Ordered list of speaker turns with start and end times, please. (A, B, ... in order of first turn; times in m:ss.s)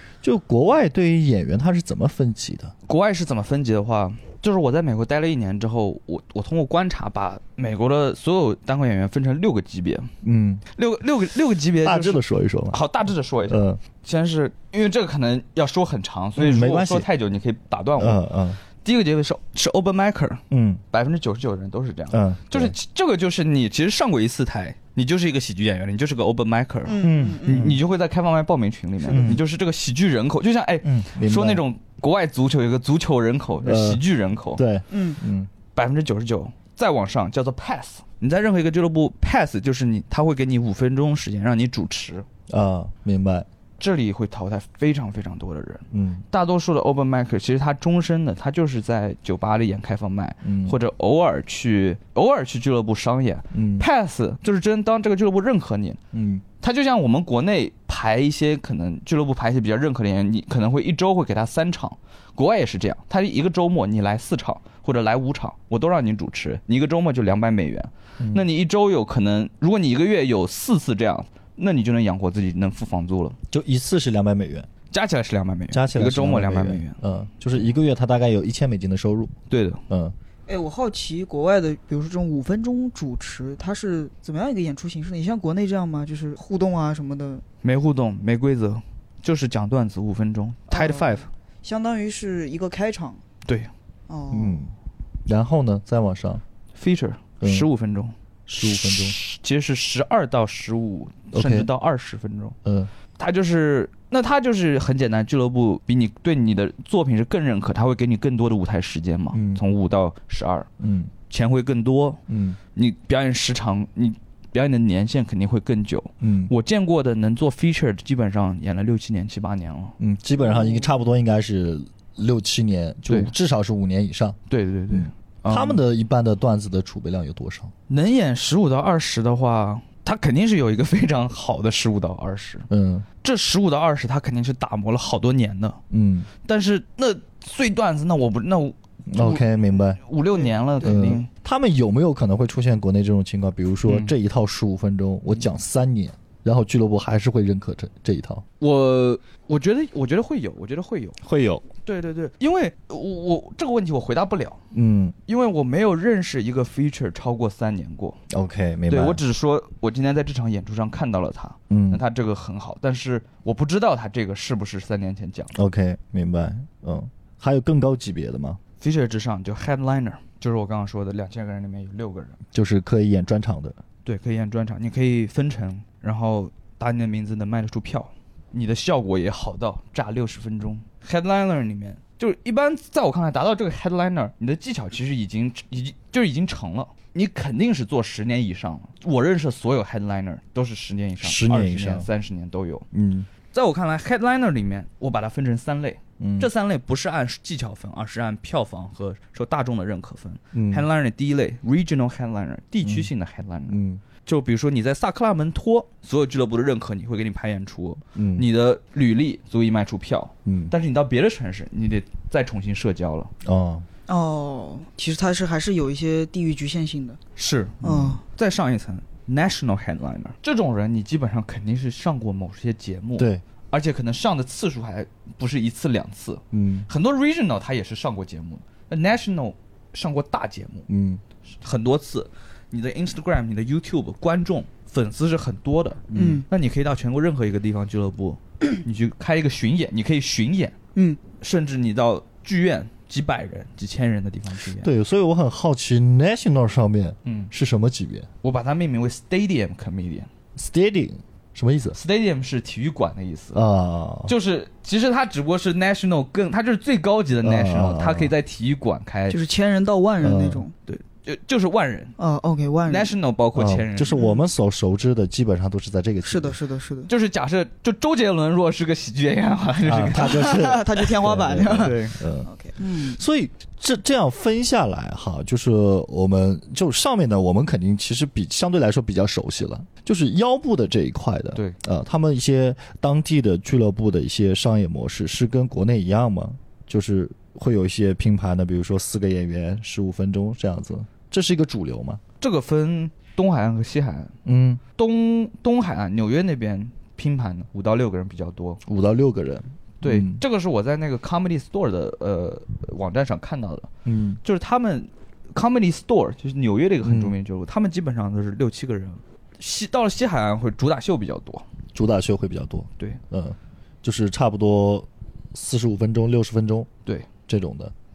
0:00.2-0:02.7 A
0:02.9-0:10.1 B
0:10.2-0:10.6 A
0:10.7-0:18.2 B
0:11.8-0:12.8 A
0:13.5-0:13.8 A
0:16.4-0:17.1 A
0:18.0-0:18.6 A
0:18.8-0:34.6 B
0:20.5-0:20.8 A
0:22.1-0:22.8 A
0:26.9-0:27.8 C
0:27.0-0:27.8 A
0:29.1-0:29.4 A
0:30.8-0:31.6 A
0:33.6-0:34.0 A
0:34.6-0:35.5 A
0:34.9-0:35.2 C
0:35.8-0:42.3 B
0:42.5-0:43.5 A
0:43.8-0:56.0 B
0:45.9-0:46.2 A
0:50.4-0:50.8 A
0:53.5-0:53.9 A
0:56.1-0:56.4 A
0:56.6-1:13.4 B
1:08.2-1:08.4 A
1:13.5-1:14.7 A
1:14.9-1:17.0 B
1:15.7-1:19.3 A
1:19.5-1:19.8 B
1:19.9-1:20.1 A
1:20.5-1:27.4 C
1:27.6-1:31.3 B
1:30.7-1:33.2 C
1:33.5-1:33.7 B
1:34.1-1:34.6 C
1:34.3-1:34.7 A
1:35.2-1:36.4 A
1:36.8-1:42.6 B
1:37.4-1:37.7 A
1:38.6-1:39.2 A
1:41.3-1:41.7 A
1:42.6-1:42.9 A
1:43.1-1:50.7 B
1:49.3-1:49.6 A
1:50.8-1:51.1 A
1:51.3-1:52.2 B
1:52.3-1:52.6 A
1:52.8-2:00.0 B
1:56.2-1:56.5 A
2:00.0-2:04.4 A
2:04.5-2:05.8 B
2:04.9-2:07.7 A
2:07.9-2:12.7 B
2:12.7-2:13.0 A
2:13.2-2:15.8 B
2:15.9-2:16.3 A
2:16.4-2:21.3 B
2:19.1-2:20.0 A
2:20.8-2:21.1 C
2:20.8-2:28.4 A
2:23.9-2:24.1 B
2:28.6-2:31.2 B
2:31.2-2:31.6 A
2:31.8-2:34.6 B
2:34.7-2:35.2 A
2:35.3-2:38.2 B
2:38.3-2:39.2 A
2:38.9-2:45.5 B
2:41.7-2:42.0 A
2:45.5-2:48.6 A
2:48.8-2:52.4 B
2:52.5-2:53.8 A
2:54.0-3:12.9 B
3:11.2-3:12.1 A
3:12.9-3:13.3 A
3:13.5-3:33.3 B
3:16.2-3:16.5 A
3:20.5-3:20.9 A
3:22.8-3:23.1 A
3:23.7-3:24.0 A
3:28.1-3:28.5 A
3:30.4-3:30.7 A
3:33.4-3:33.9 A
3:34.1-3:37.2 C
3:37.4-3:50.9 B
3:37.8-3:38.2 A
3:43.2-3:43.4 A
3:46.5-3:46.9 A
3:50.9-3:51.2 A
3:51.6-4:00.8 B
3:56.1-3:56.4 A
3:56.1-3:56.5 C
4:01.4-4:04.9 B
4:04.8-4:08.3 A
4:07.2-4:07.5 B
4:08.4-4:10.3 B
4:10.6-4:12.0 A
4:11.9-4:13.6 B
4:13.5-4:14.3 A
4:14.2-4:19.4 B
4:17.4-4:18.3 A
4:19.3-4:20.7 C
4:20.2-4:20.6 A
4:20.9-4:22.1 B
4:22.2-4:23.1 C
4:22.9-4:24.2 B
4:23.5-4:26.6 A
4:24.1-4:24.4 C
4:26.2-4:27.1 C
4:27.1-4:30.7 B
4:29.8-4:52.2 A
4:30.1-4:33.2 C
4:31.6-4:32.2 B
4:52.4-4:54.4 B
4:54.4-4:54.8 A
4:55.0-4:58.8 B
4:58.8-5:00.4 A
5:00.0-5:03.9 B
5:04.0-5:04.4 A
5:04.4-5:11.6 B
5:07.0-5:07.4 A
5:11.9-5:16.9 A
5:17.5-5:17.9 A